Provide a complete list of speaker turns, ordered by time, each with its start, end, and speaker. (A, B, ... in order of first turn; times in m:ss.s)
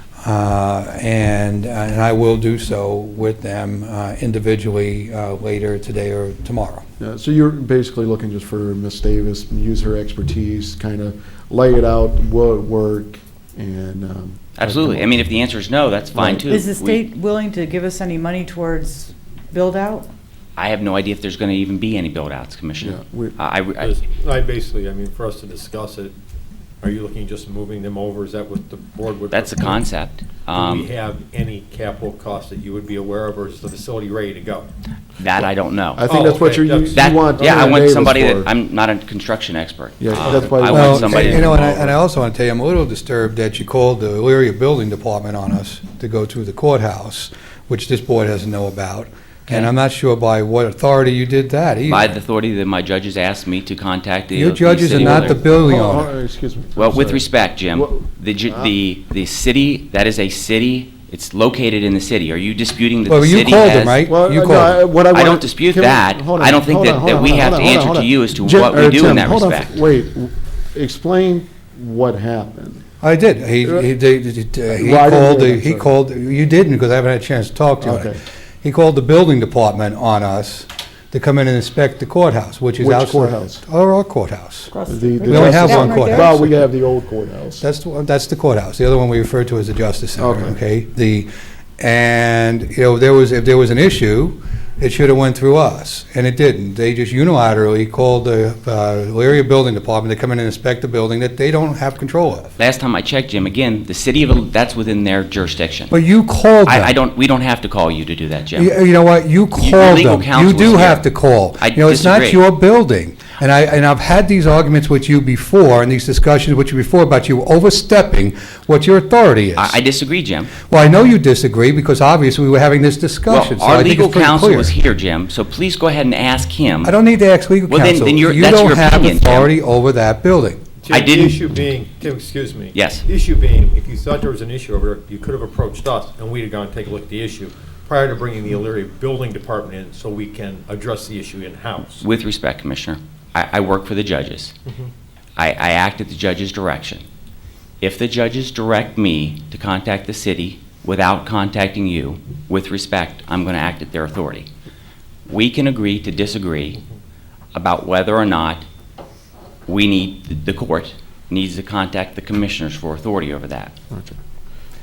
0:00.2-0:06.8 A
0:07.0-0:15.2 B
0:14.6-0:17.0 C
0:16.2-0:16.5 B
0:16.5-0:20.1 D
0:20.6-0:23.9 C
0:22.8-0:23.4 B
0:23.8-0:26.1 E
0:26.8-0:29.9 E
0:29.3-0:30.9 C
0:30.5-0:34.7 E
0:35.2-0:36.0 C
0:36.0-0:38.5 B
0:36.1-0:37.8 E
0:36.9-0:42.0 C
0:40.0-0:41.6 B
0:40.2-0:40.6 E
0:40.7-0:52.2 A
0:51.9-0:55.4 C
0:54.3-0:56.1 A
0:54.9-0:58.7 B
0:56.8-1:04.0 C
1:03.1-1:04.8 A
1:04.1-1:12.8 B
1:05.1-1:09.8 C
1:13.0-1:26.6 A
1:14.7-1:15.9 B
1:17.8-1:18.2 B
1:22.8-1:23.6 B
1:24.9-1:27.6 B
1:25.0-1:26.4 D
1:27.6-1:42.5 A
1:30.2-1:30.6 B
1:42.6-1:46.0 C
1:45.9-1:46.9 A
1:46.6-1:48.8 C
1:48.6-1:59.8 A
1:49.6-1:52.4 C
1:59.6-2:00.6 C
2:00.6-2:04.7 A
2:03.3-2:07.0 C
2:06.8-2:10.6 A
2:07.7-2:09.5 C
2:10.8-2:22.0 E
2:10.9-2:11.4 C
2:12.7-2:13.0 C
2:22.0-2:24.5 C
2:25.4-2:27.0 C
2:27.8-2:34.5 C
2:35.3-2:36.8 C
2:37.6-2:38.6 C
2:39.7-2:43.7 C
2:43.9-2:44.2 B